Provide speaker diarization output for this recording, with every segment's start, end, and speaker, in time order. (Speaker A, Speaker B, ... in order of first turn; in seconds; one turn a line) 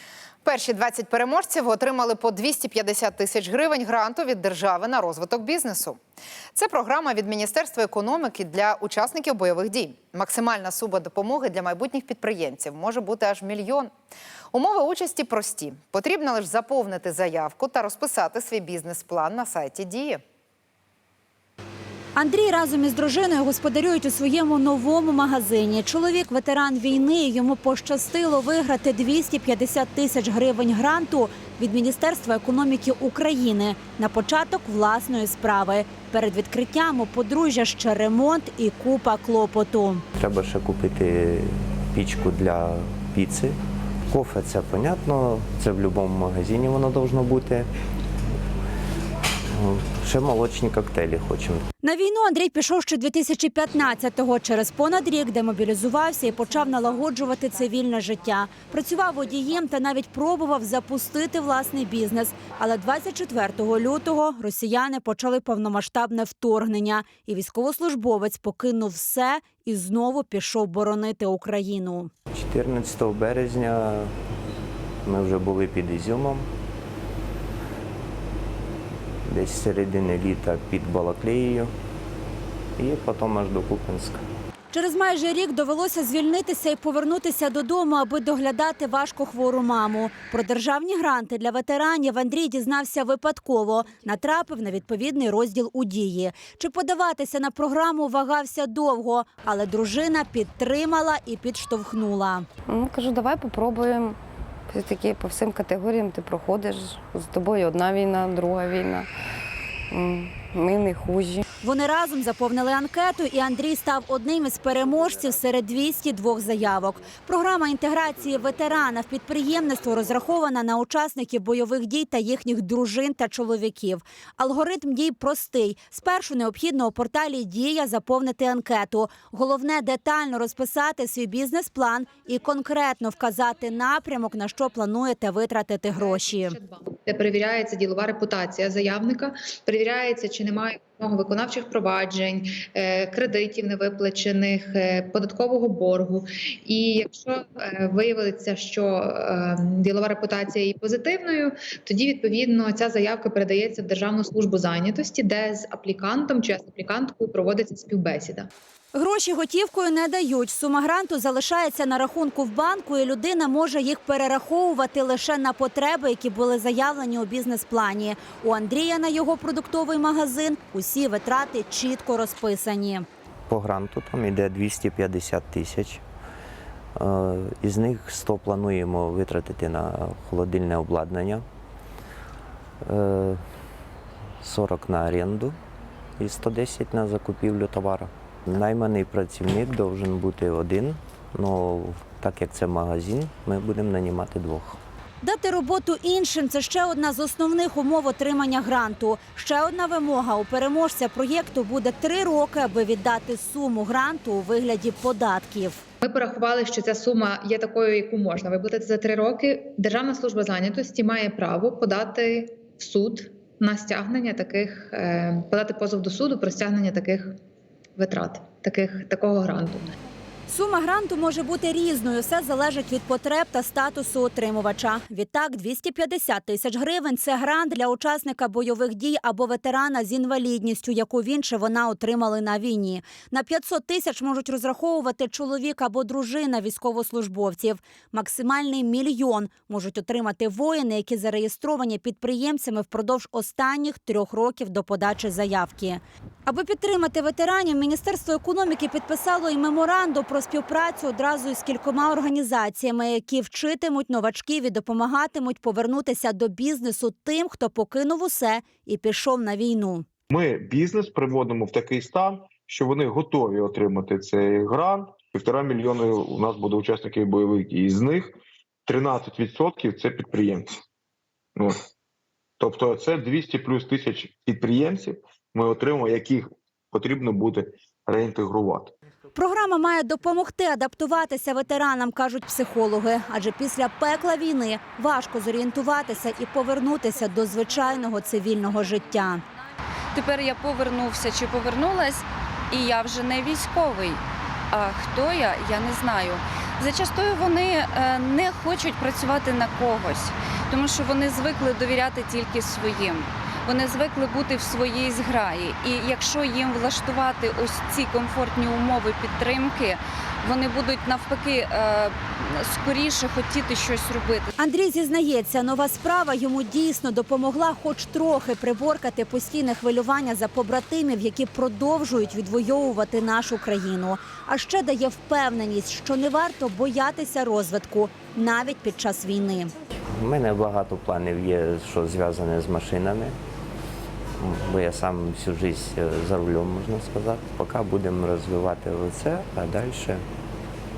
Speaker A: 0.4-6.0
Speaker A: 6.5-13.9
Speaker A: 14.5-20.2
Speaker B: 22.2-40.0
Speaker C: 40.2-43.6
Speaker C: 44.1-47.7
Speaker C: 49.5-51.6
Speaker B: 51.8-72.1
Speaker C: 72.3-74.1
Speaker C: 75.0-76.5
Speaker C: 79.3-81.7
Speaker C: 82.8-84.2
Speaker B: 84.7-102.5
Speaker D: 102.7-104.2
Speaker D: 104.7-109.1
Speaker D: 109.9-111.5
Speaker B: 111.6-136.6
Speaker E: 135.9-158.5
Speaker B: 158.9-173.1
Speaker C: 173.5-176.0
Speaker C: 177.0-181.4
Speaker C: 182.8-183.4
Speaker C: 184.4-185.6
Speaker C: 186.2-194.8
Speaker B: 195.2-205.8
Speaker E: 206.0-217.3
Speaker E: 218.0-219.9
Speaker B: 220.5-260.1
Speaker F: 260.3-268.4
Speaker F: 268.9-270.8
Speaker F: 272.6-278.9
Speaker B: 279.4-289.4
Speaker G: 290.1-294.2
Speaker G: 294.7-314.5
Speaker B: 314.6-329.7
Speaker C: 330.1-333.4
Speaker C: 334.4-340.2